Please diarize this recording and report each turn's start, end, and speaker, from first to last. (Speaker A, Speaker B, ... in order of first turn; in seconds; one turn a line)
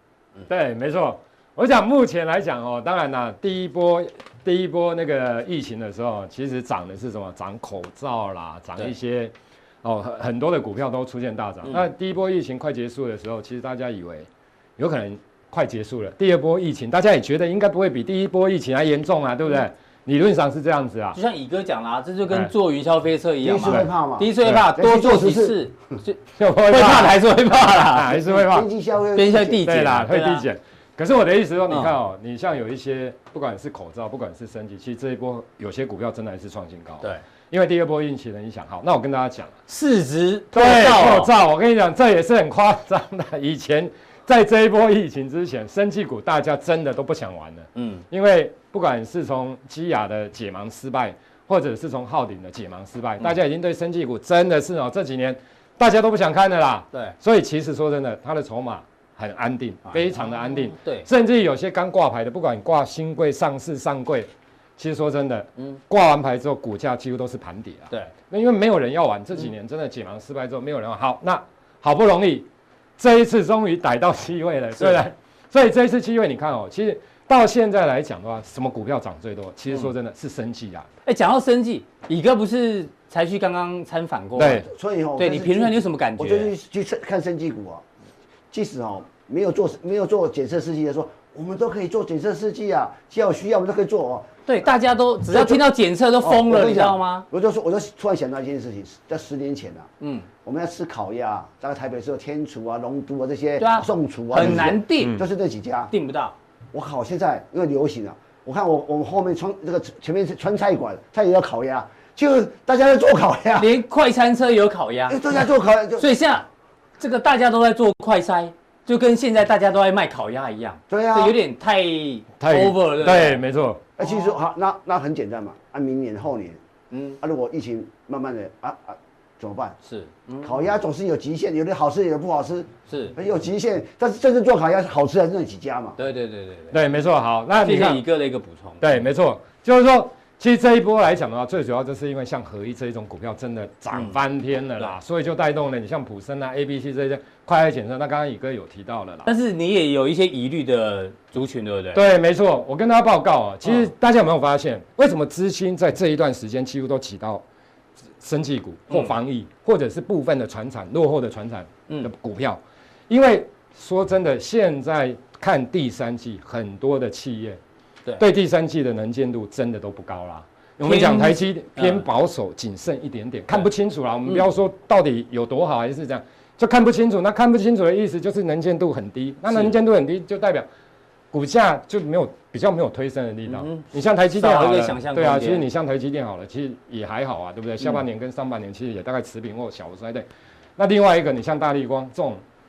Speaker A: 0.5-21.2
Speaker B: 21.1-28.3
Speaker C: 23.4-25.7
Speaker A: 26.4-28.7
Speaker C: 28.1-29.7
Speaker B: 29.1-30.5
Speaker A: 29.6-39.5
Speaker B: 31.7-31.9
Speaker B: 39.7-41.3
Speaker A: 40.5-72.5
Speaker B: 47.8-48.0
Speaker B: 60.0-61.1
Speaker A: 73.0-80.9
Speaker B: 81.0-84.6
Speaker A: 84.3-84.7
Speaker C: 84.6-87.8
Speaker B: 85.2-86.5
Speaker C: 88.5-94.3
Speaker B: 94.5-97.3
Speaker C: 95.3-95.7
Speaker C: 96.2-99.9
Speaker B: 100.0-100.3
Speaker C: 100.4-105.9
Speaker B: 103.6-105.2
Speaker B: 105.9-106.3
Speaker C: 106.7-113.7
Speaker B: 113.6-115.5
Speaker C: 115.1-116.1
Speaker B: 116.0-116.5
Speaker B: 117.0-123.4
Speaker C: 120.9-121.4
Speaker A: 122.4-123.8
Speaker C: 124.0-126.6
Speaker B: 124.0-124.3
Speaker B: 126.9-127.2
Speaker C: 127.2-129.7
Speaker B: 129.8-130.6
Speaker C: 130.4-136.0
Speaker B: 132.9-133.1
Speaker B: 136.0-136.8
Speaker A: 136.7-138.0
Speaker B: 137.6-138.8
Speaker A: 138.8-149.3
Speaker B: 143.9-144.2
Speaker B: 149.2-152.0
Speaker A: 151.9-157.4
Speaker B: 153.6-153.9
Speaker A: 158.2-167.6
Speaker A: 168.2-180.7
Speaker B: 170.8-172.1
Speaker B: 179.5-179.8
Speaker A: 181.3-192.4
Speaker B: 183.4-185.7